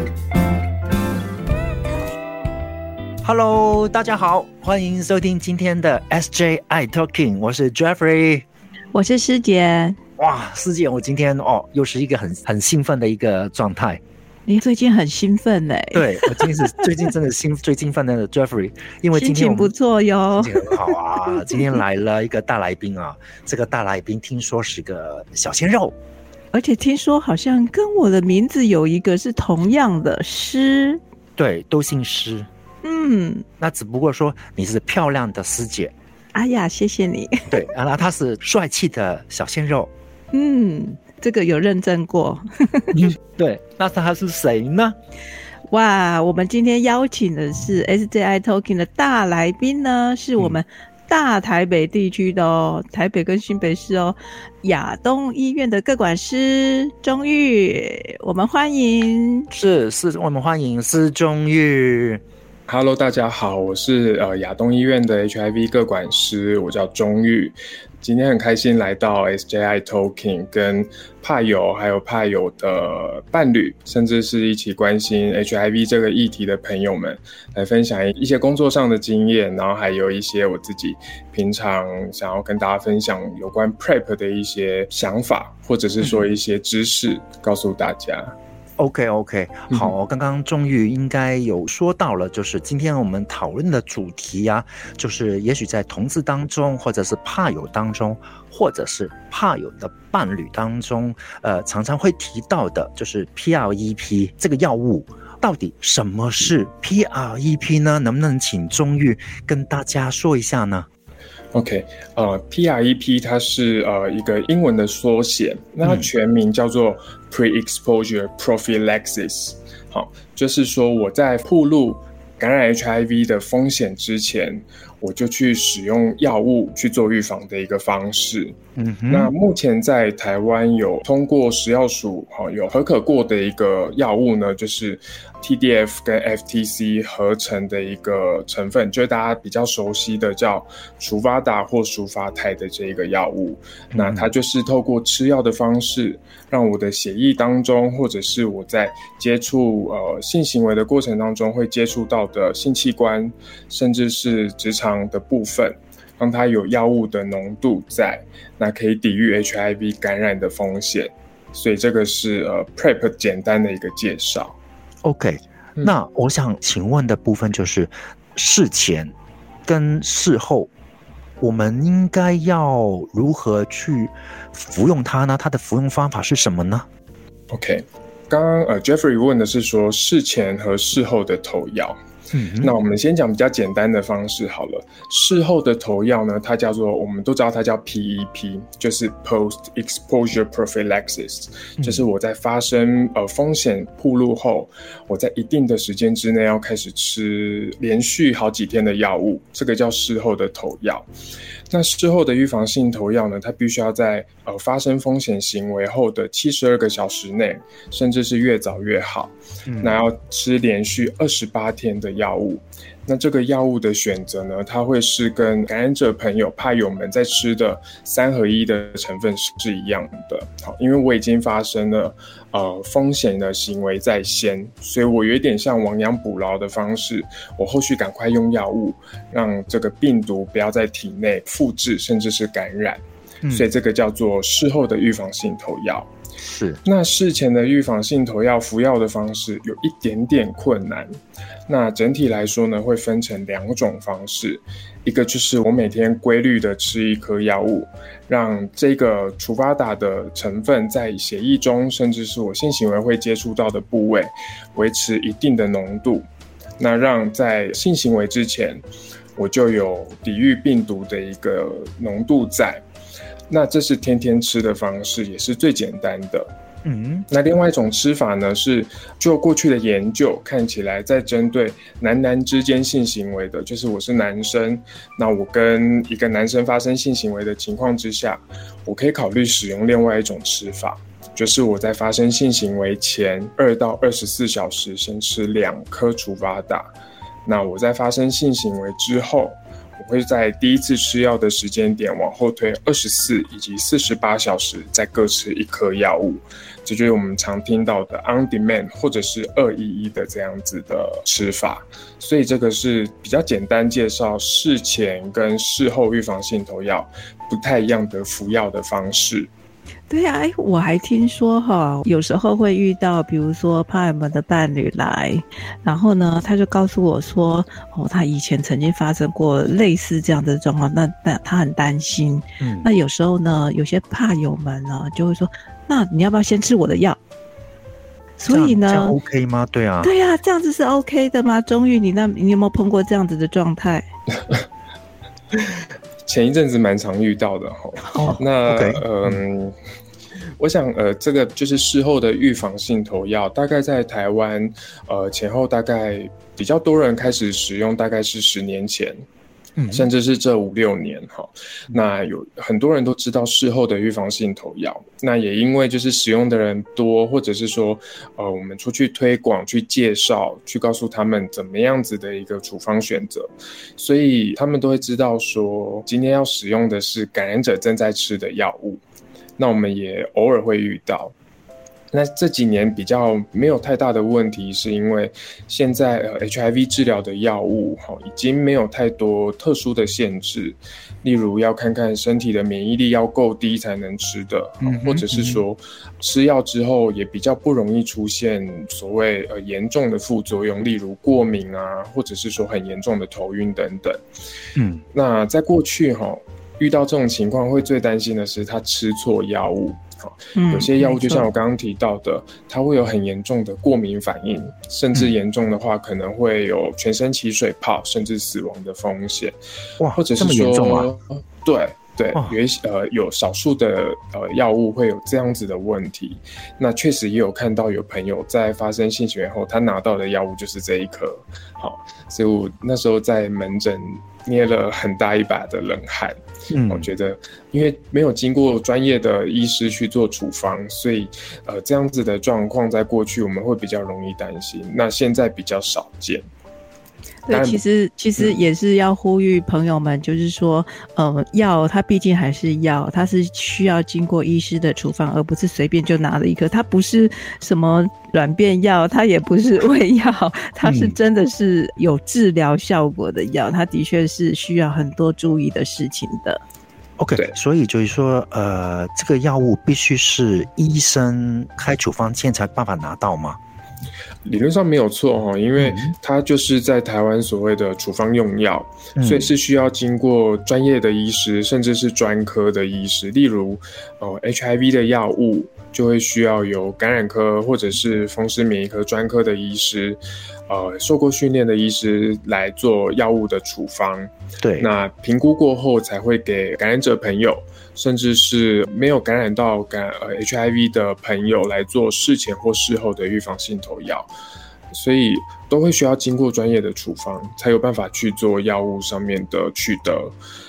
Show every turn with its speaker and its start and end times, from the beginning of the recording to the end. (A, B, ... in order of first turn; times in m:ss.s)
0:03.2-0:08.4 A
0:08.9-0:10.0 B
0:10.2-0:14.0 A
0:14.4-0:17.1 B
0:15.9-0:19.7 A
0:19.1-0:21.8 B
0:20.4-0:25.9 A
0:26.5-0:31.0 B
0:31.4-0:32.5 A
0:32.8-0:33.4 B
0:33.6-0:35.9 A
0:36.3-0:37.6 B
0:37.5-0:39.9 A
0:40.3-0:43.0 B
0:42.9-0:45.0 A
0:45.7-0:59.5 B
0:59.5-1:02.2 A
1:02.7-1:28.3 C
1:28.8-1:50.9 A
1:51.5-2:08.6 C
1:55.8-1:56.1 A
2:08.8-2:09.3 A
2:09.1-2:44.6 C
2:23.9-2:24.3 A
2:45.0-2:49.1 A
2:49.6-2:50.7 A
2:51.4-2:56.8 A
2:57.5-3:02.0 C
3:02.3-3:02.7 A
3:02.6-3:21.1 C
3:11.8-3:12.0 A
3:21.7-3:56.1 C
3:29.7-3:30.0 A
3:56.4-3:56.8 A
3:56.8-4:01.2 C
4:01.7-4:16.2 C
4:16.8-4:18.8 C
4:19.4-4:22.8 C
4:23.5-4:26.5 C
4:26.8-4:27.3 A
4:27.3-4:46.9 C
4:47.4-5:09.5 C
5:10.1-5:27.2 B
5:22.6-5:22.9 A
5:28.4-5:29.2 B
5:28.5-5:30.1 A
5:30.0-5:34.0 B
5:36.2-5:39.7 C
5:38.1-5:38.4 B
5:38.2-5:39.4 A
5:40.6-5:49.2 C
5:49.8-5:50.1 A
5:49.9-6:09.0 C
6:09.6-6:11.3 C
6:12.1-6:34.2 C
6:24.8-6:25.6 A
6:34.8-6:35.0 A
6:35.1-6:49.5 C
6:40.5-6:41.4 B
6:50.0-6:51.1 A
6:50.1-7:06.4 C
7:06.7-7:07.1 A
7:06.9-7:16.4 C
7:17.4-7:36.6 B
7:17.5-7:17.8 C
7:30.8-7:31.2 A
7:37.2-7:43.6 A
7:44.4-8:14.3 C
7:45.8-7:46.1 A
7:49.2-7:49.5 A
8:04.6-8:04.9 A
8:14.9-8:20.3 C